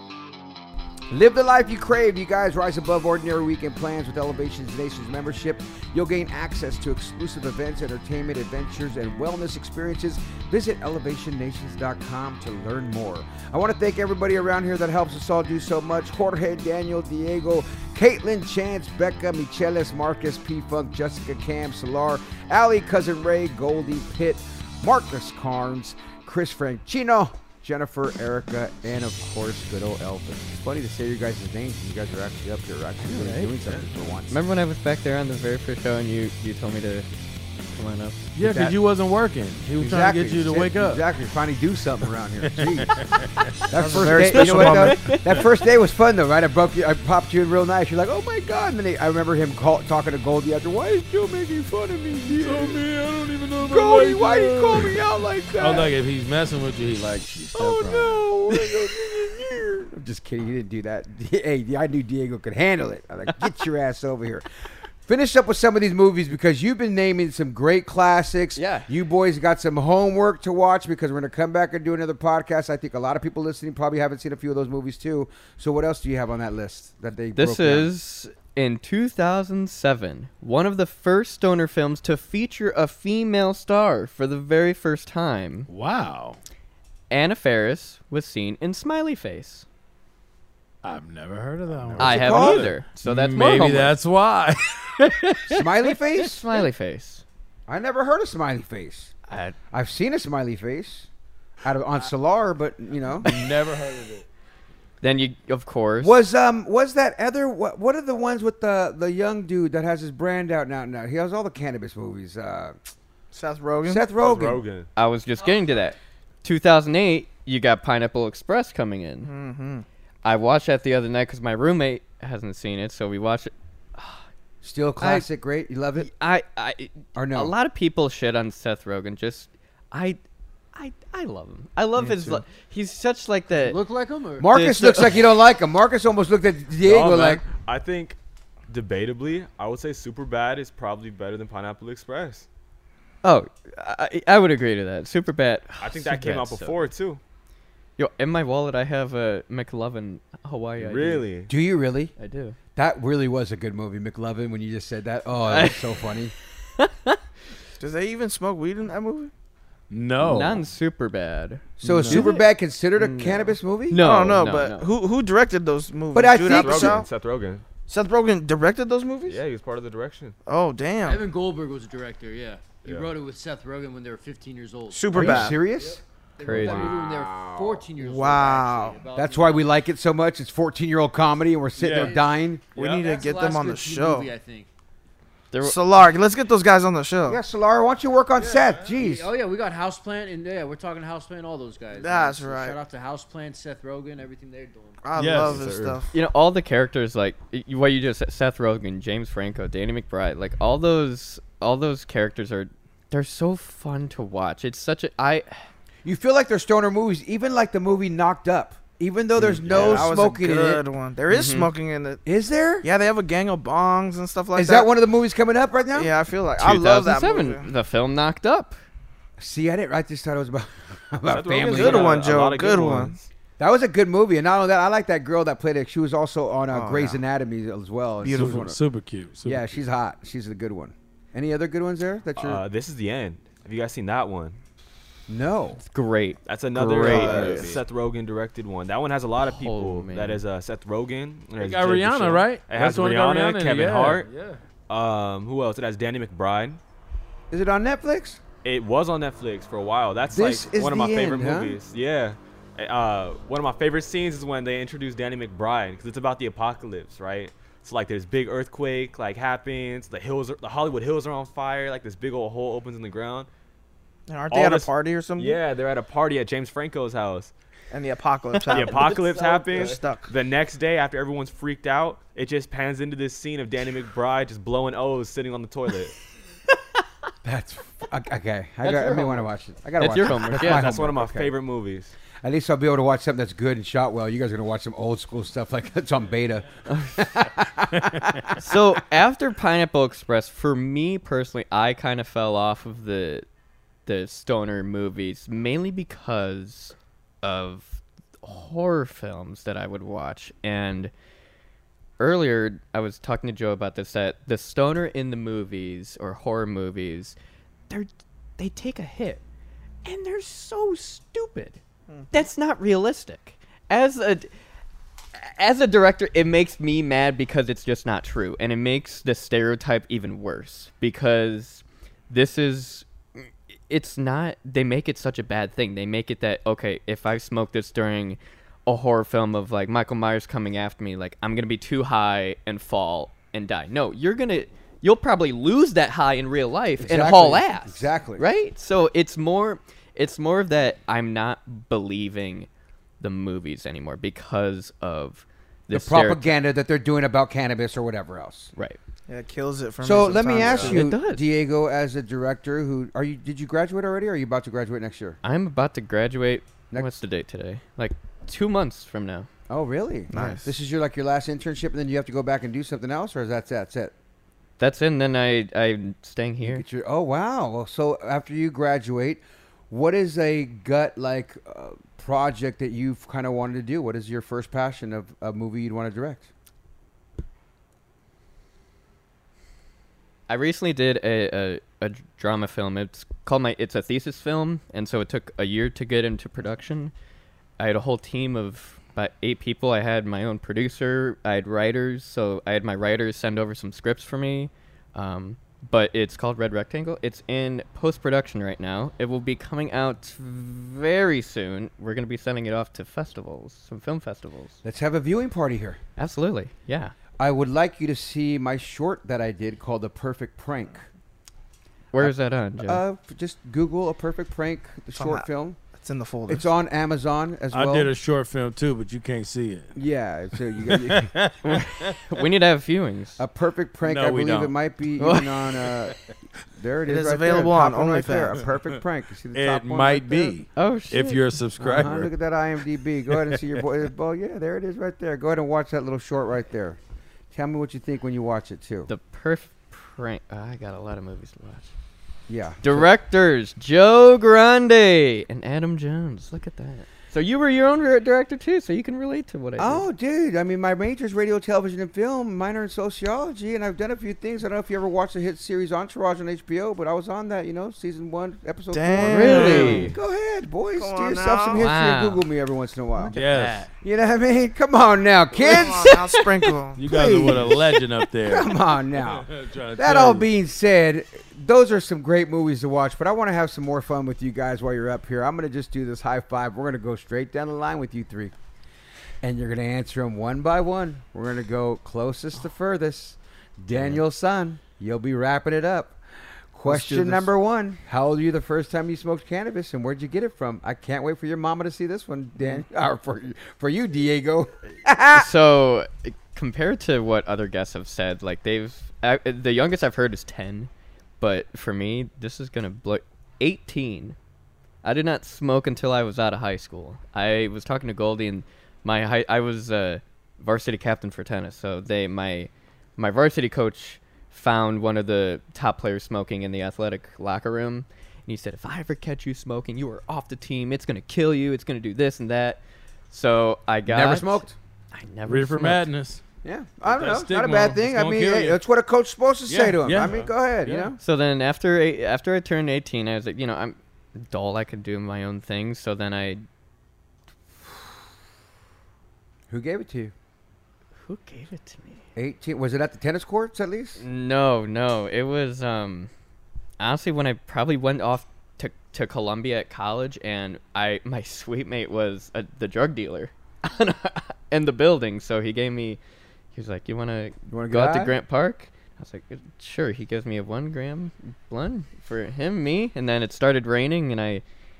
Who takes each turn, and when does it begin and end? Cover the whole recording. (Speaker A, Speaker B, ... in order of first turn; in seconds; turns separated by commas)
Speaker A: 1.1-34.4, Speaker B: 33.0-33.5, Speaker B: 34.3-37.1, Speaker B: 37.7-38.2, Speaker C: 38.4-41.0, Speaker A: 38.4-38.8, Speaker A: 39.8-43.0, Speaker C: 42.4-43.5, Speaker A: 43.7-52.8, Speaker D: 43.7-45.0, Speaker C: 44.0-45.4, Speaker B: 44.2-45.4, Speaker C: 52.3-58.5, Speaker A: 53.6-55.9, Speaker A: 57.5-64.4, Speaker A: 65.0-77.9, Speaker B: 68.6-68.9, Speaker B: 77.3-85.7, Speaker C: 85.7-86.4, Speaker B: 87.1-89.7, Speaker C: 90.8-95.4, Speaker A: 91.9-92.7, Speaker B: 92.0-94.0, Speaker A: 95.5-96.6, Speaker B: 96.1-97.2, Speaker A: 97.7-99.1, Speaker B: 99.3-99.5, Speaker A: 99.7-101.1, Speaker A: 101.6-103.4, Speaker C: 103.2-104.2, Speaker B: 105.0-106.2, Speaker A: 106.0-112.8, Speaker D: 113.3-114.1, Speaker A: 113.8-114.6, Speaker E: 114.2-114.9, Speaker B: 115.0-119.3, Speaker D: 119.2-119.8, Speaker B: 120.2-124.2, Speaker A: 124.6-126.1, Speaker B: 125.0-125.3, Speaker B: 126.0-130.2, Speaker A: 127.1-127.5, Speaker B: 130.7-133.8, Speaker F: 133.5-134.5, Speaker A: 134.4-137.4, Speaker B: 134.4-135.2, Speaker E: 136.8-138.2, Speaker E: 138.7-142.4, Speaker B: 143.2-146.9, Speaker E: 145.8-147.2, Speaker B: 148.0-151.2, Speaker E: 150.8-151.5, Speaker A: 151.5-152.1, Speaker B: 152.2-152.6, Speaker A: 152.8-156.3, Speaker B: 155.4-155.9, Speaker B: 156.8-157.2, Speaker D: 157.8-159.3, Speaker C: 159.9-160.6, Speaker B: 160.2-162.4, Speaker A: 161.8-164.0, Speaker C: 161.8-162.3, Speaker B: 162.9-164.9, Speaker D: 164.0-167.1, Speaker A: 166.1-167.0, Speaker E: 166.5-167.6, Speaker D: 167.9-169.4, Speaker E: 169.3-170.3, Speaker D: 170.4-171.3, Speaker F: 171.0-179.7, Speaker E: 172.8-173.2, Speaker D: 174.9-175.6, Speaker A: 175.1-176.0, Speaker B: 176.4-176.9, Speaker D: 178.0-179.0, Speaker A: 179.1-182.7, Speaker C: 181.8-182.1, Speaker F: 181.9-182.2, Speaker E: 182.8-183.1, Speaker D: 182.8-184.3, Speaker F: 182.9-184.7, Speaker B: 185.5-185.8, Speaker D: 185.6-187.4, Speaker A: 187.3-189.3, Speaker F: 188.6-195.0, Speaker D: 191.9-192.8, Speaker D: 195.0-196.1, Speaker C: 195.2-196.0, Speaker B: 196.1-205.6, Speaker A: 206.0-210.8, Speaker D: 209.6-212.2, Speaker E: 209.7-210.1, Speaker B: 211.3-211.7, Speaker A: 212.2-212.9, Speaker D: 212.8-214.9, Speaker A: 214.5-216.1, Speaker D: 215.9-217.7, Speaker B: 216.6-218.8, Speaker A: 219.4-222.3, Speaker E: 221.3-223.3, Speaker D: 221.7-223.1, Speaker A: 223.6-228.8, Speaker D: 226.7-227.2, Speaker D: 228.2-228.7, Speaker C: 228.3-229.7, Speaker A: 229.4-232.6, Speaker E: 232.3-234.6, Speaker A: 235.3-235.8, Speaker B: 235.8-237.8, Speaker E: 236.4-244.3, Speaker A: 237.0-237.7, Speaker D: 237.0-237.8, Speaker B: 239.4-240.4, Speaker C: 241.6-244.5, Speaker E: 244.9-246.8, Speaker A: 247.5-248.4, Speaker E: 248.6-263.5, Speaker A: 250.3-251.8, Speaker D: 264.3-265.6, Speaker E: 264.5-267.5, Speaker D: 267.9-270.3, Speaker E: 268.7-276.1, Speaker A: 277.4-281.5, Speaker B: 278.8-280.9, Speaker E: 280.6-282.1, Speaker A: 282.4-288.5, Speaker B: 286.9-287.2, Speaker B: 288.6-293.4, Speaker B: 294.1-301.1, Speaker B: 302.2-307.4, Speaker B: 307.9-309.4, Speaker B: 310.0-311.8, Speaker B: 312.3-314.5, Speaker B: 315.3-342.7, Speaker A: 337.0-338.4, Speaker B: 343.2-346.6, Speaker A: 345.9-348.7, Speaker D: 349.3-351.0, Speaker A: 350.0-355.4, Speaker B: 350.6-351.4, Speaker B: 355.4-359.5, Speaker A: 359.7-364.1, Speaker D: 360.3-360.7, Speaker B: 364.8-366.8, Speaker A: 366.6-376.5, Speaker B: 380.5-387.1, Speaker B: 387.8-404.8, Speaker A: 404.8-406.0, Speaker B: 406.2-407.1, Speaker A: 407.4-411.1, Speaker B: 412.1-413.0, Speaker A: 412.2-415.8, Speaker D: 415.1-416.7, Speaker A: 416.5-418.1, Speaker C: 417.7-419.9, Speaker A: 419.9-421.5, Speaker C: 420.8-422.1, Speaker B: 421.6-423.4, Speaker A: 423.4-426.2, Speaker C: 424.0-424.7, Speaker B: 425.2-425.8, Speaker A: 426.7-430.6, Speaker D: 427.0-428.6, Speaker C: 429.5-432.3, Speaker B: 430.7-431.4, Speaker A: 431.8-437.0, Speaker C: 433.3-433.6, Speaker A: 437.5-439.1, Speaker B: 439.1-441.9, Speaker A: 442.5-443.1, Speaker B: 442.8-450.1, Speaker A: 449.8-463.4, Speaker D: 458.9-460.1, Speaker B: 459.2-460.1, Speaker D: 460.9-461.8, Speaker B: 461.7-462.5, Speaker B: 463.2-463.8, Speaker C: 463.3-463.9, Speaker A: 464.0-466.3, Speaker D: 465.6-467.0, Speaker C: 466.9-470.5, Speaker A: 467.0-478.5, Speaker A: 479.4-486.2, Speaker A: 486.7-495.5, Speaker C: 486.9-487.4, Speaker B: 495.3-504.4, Speaker B: 505.0-526.1, Speaker A: 524.0-524.7, Speaker C: 525.5-526.4, Speaker A: 526.6-531.2, Speaker C: 527.0-528.8, Speaker C: 529.7-531.1, Speaker B: 531.2-536.6, Speaker A: 539.7-540.3, Speaker B: 541.2-542.2, Speaker A: 542.4-544.2, Speaker B: 544.2-546.3, Speaker B: 547.0-556.2, Speaker B: 556.7-564.6, Speaker A: 557.7-558.3